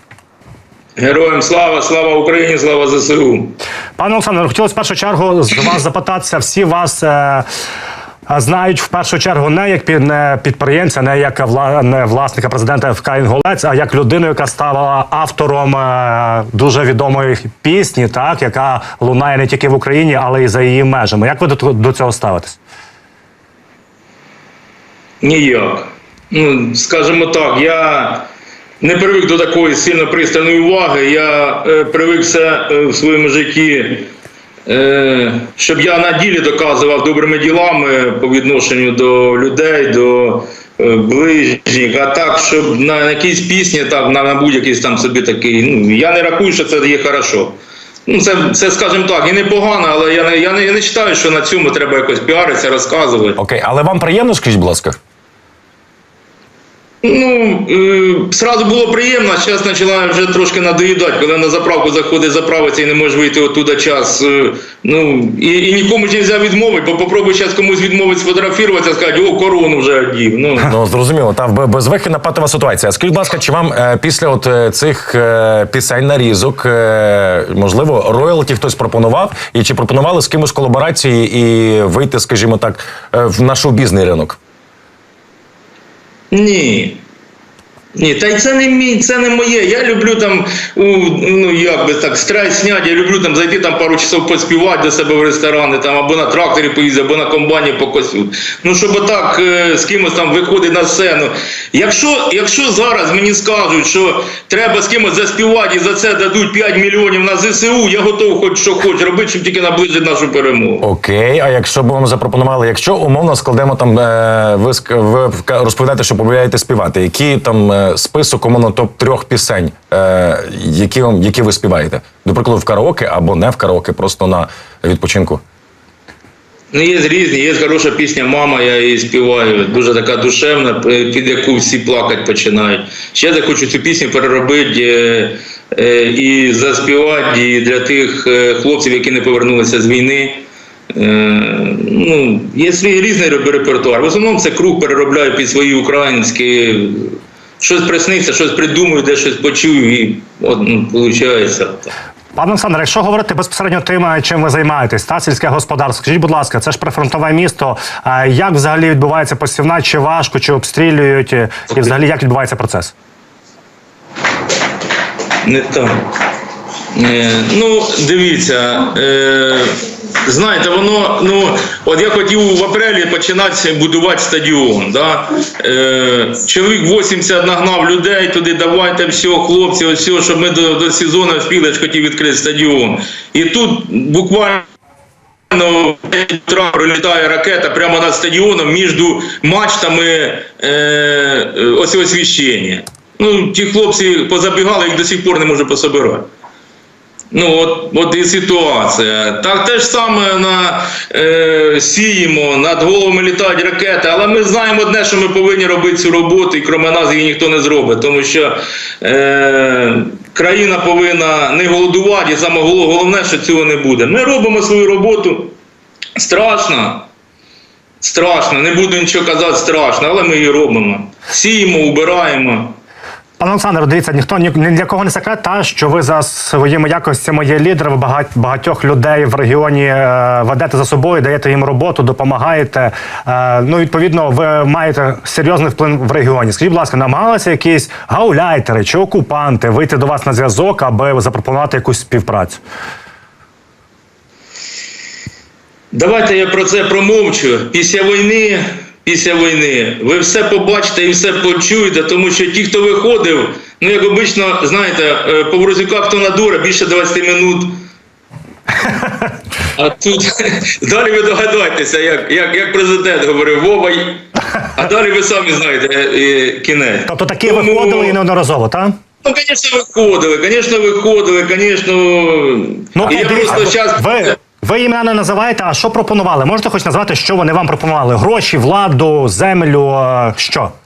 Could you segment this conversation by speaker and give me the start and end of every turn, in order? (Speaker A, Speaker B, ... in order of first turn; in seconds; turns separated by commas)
Speaker A: 1.0-3.5, Speaker B: 4.0-7.5, Speaker B: 8.3-22.6, Speaker A: 25.2-28.3, Speaker A: 28.8-34.1, Speaker A: 34.7-53.4, Speaker C: 53.4-55.0, Speaker A: 57.0-70.8, Speaker C: 70.6-84.4, Speaker A: 86.3-87.0, Speaker A: 88.0-110.9, Speaker C: 110.8-125.4, Speaker A: 126.7-151.9, Speaker B: 152.4-162.9, Speaker A: 165.4-166.0, Speaker A: 166.9-184.7, Speaker A: 185.5-196.3, Speaker A: 197.3-215.5, Speaker A: 216.2-217.1, Speaker A: 218.0-222.8, Speaker B: 223.4-242.6, Speaker A: 245.9-257.8, Speaker A: 259.8-268.2, Speaker B: 267.1-269.0, Speaker A: 269.2-274.3, Speaker B: 273.0-280.7